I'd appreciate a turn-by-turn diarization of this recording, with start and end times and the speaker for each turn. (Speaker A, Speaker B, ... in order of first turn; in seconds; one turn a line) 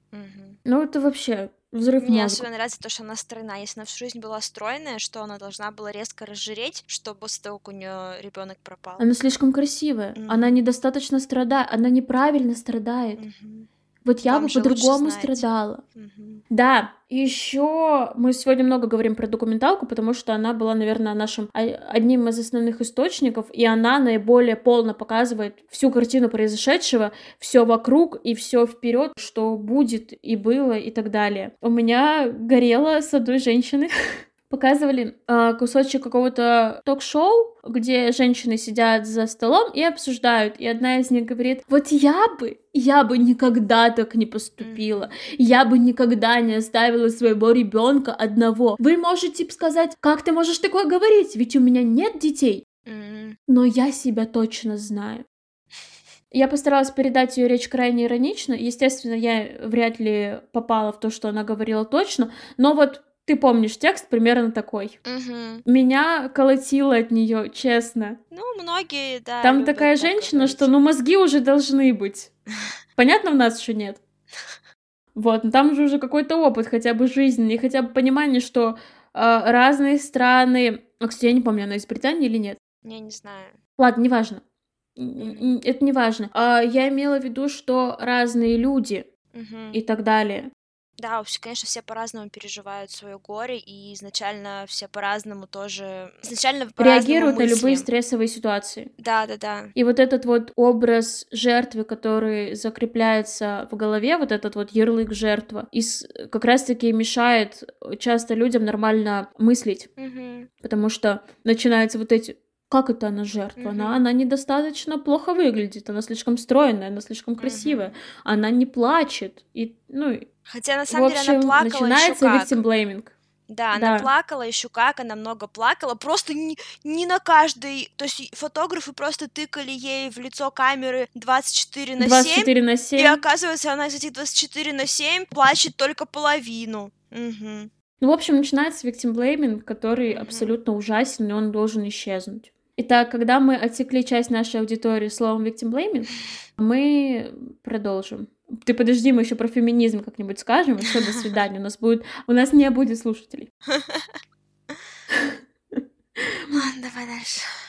Speaker A: 0.1-0.6
Speaker B: 0.6-2.5
Speaker A: 2.0-9.1
Speaker B: 9.0-13.2
Speaker A: 10.2-10.6
Speaker A: 13.2-13.7
Speaker B: 14.0-15.8
Speaker A: 14.2-16.4
Speaker B: 16.5-33.9
Speaker B: 34.5-52.6
Speaker A: 44.6-45.1
Speaker A: 52.9-53.4
Speaker B: 53.5-55.2
Speaker B: 56.3-65.0
Speaker A: 65.0-65.7
Speaker B: 65.7-68.2
Speaker A: 68.3-70.7
Speaker B: 69.4-72.3
Speaker B: 73.0-74.0
Speaker B: 75.1-82.6
Speaker A: 82.8-83.6
Speaker B: 83.8-84.4
Speaker B: 85.0-89.0
Speaker A: 85.2-85.5
Speaker A: 89.3-89.8
Speaker B: 89.7-90.5
Speaker A: 91.0-97.9
Speaker B: 96.8-98.9
Speaker A: 99.0-99.7
Speaker B: 99.7-109.9
Speaker A: 110.0-110.5
Speaker B: 110.6-120.2
Speaker A: 113.6-114.0
Speaker A: 117.4-117.9
Speaker A: 120.5-122.6
Speaker B: 120.9-123.1
Speaker A: 123.5-137.7
Speaker B: 123.7-124.1
Speaker B: 132.0-133.2
Speaker B: 138.0-153.5
Speaker A: 140.1-140.5
Speaker A: 150.8-151.4
Speaker A: 153.7-154.2
Speaker B: 155.1-156.6
Speaker A: 156.5-157.5